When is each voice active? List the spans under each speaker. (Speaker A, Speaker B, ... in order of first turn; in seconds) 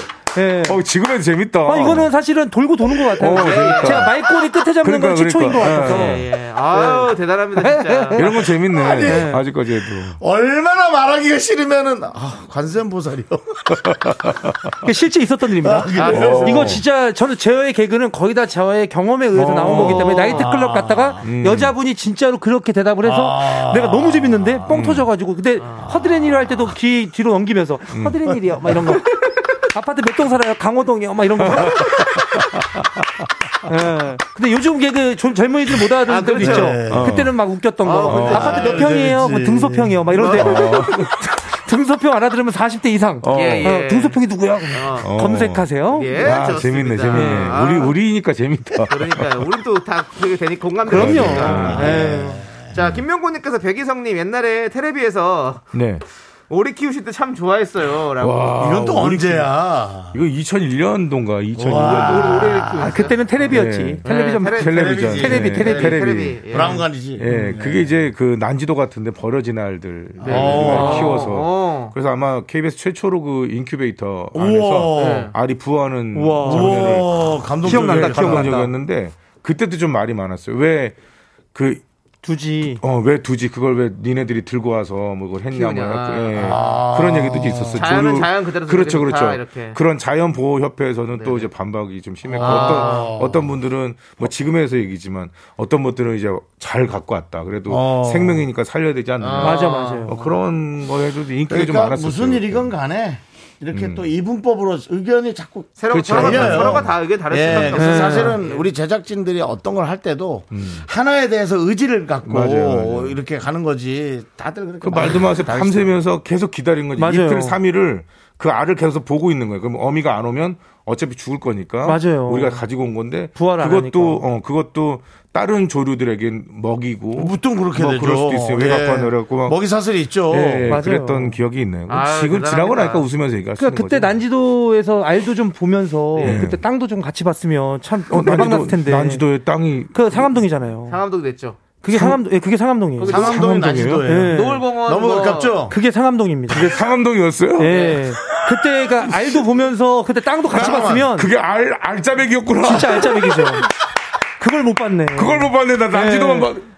Speaker A: 0.3-0.8, 1.6-9.4, 14.8-32.2, 33.7-46.3, 47.1-47.7, 50.9-52.4, 62.8-66.0, 70.6-71.2, 76.1-77.0, 77.6-78.7, 82.2-82.8, 99.4-100.1, 107.6-108.4, 117.0-117.6, 121.8-122.6, 123.3-124.2, 130.6-131.4, 133.6-139.2, 139.9-141.0, 141.8-143.2, 144.0-144.7, 145.7-146.8, 147.6-151.3, 152.6-153.7, 154.4-156.5
Speaker B: 0.6-2.1, 3.1-4.2, 4.8-6.2, 8.1-10.2, 13.9-14.5, 16.1-16.8, 19.3-20.3, 21.2-21.7, 24.7-25.1, 27.9-28.3, 31.4-32.8, 36.9-37.4, 38.1-38.5, 40.3-41.1, 43.2-43.8, 45.0-49.5, 50.9-52.0, 55.7-56.0, 58.2-59.5, 60.1-62.7, 63.4-66.5, 67.2-80.9, 81.5-81.8, 82.8-102.7, 103.7-104.1, 105.9-106.9, 110.5-110.8, 112.2-113.2, 114.8-129.6, 130.3-134.2, 136.2-136.6, 138.1-140.4, 141.9-142.2, 143.1-144.2, 146.5-149.4, 150.6-153.6, 155.1-156.7
Speaker C: 3.2-4.1, 5.7-8.2, 15.9-16.8, 19.7-20.5, 25.6-25.9, 36.0-36.8, 37.8-38.9, 40.1-40.6, 43.3-44.2, 44.7-45.1, 45.9-47.9, 48.9-55.7, 56.5-58.5, 61.7-63.1, 64.0-66.9, 70.2-72.0, 74.9-75.3, 85.5-86.7, 87.7-89.8, 91.1-91.5, 92.4-93.2, 99.2-100.1, 105.8-108.7, 131.9-133.1, 136.2-136.4, 140.9-141.6, 143.0-143.6, 144.3-145.6, 147.7-148.0
Speaker D: 8.6-14.3, 15.6-16.8, 19.7-21.3, 23.0-24.8, 25.8-26.6, 36.4-37.2, 38.3-40.1, 51.2-52.8, 58.5-60.2, 61.5-63.1, 64.6-65.9, 66.5-68.0, 70.2-71.2, 74.3-75.3, 76.4-78.6, 86.3-88.0, 92.2-93.5, 97.7-98.5, 100.1-100.4, 101.5-116.0, 127.1-130.8, 143.0-145.8, 150.5-151.1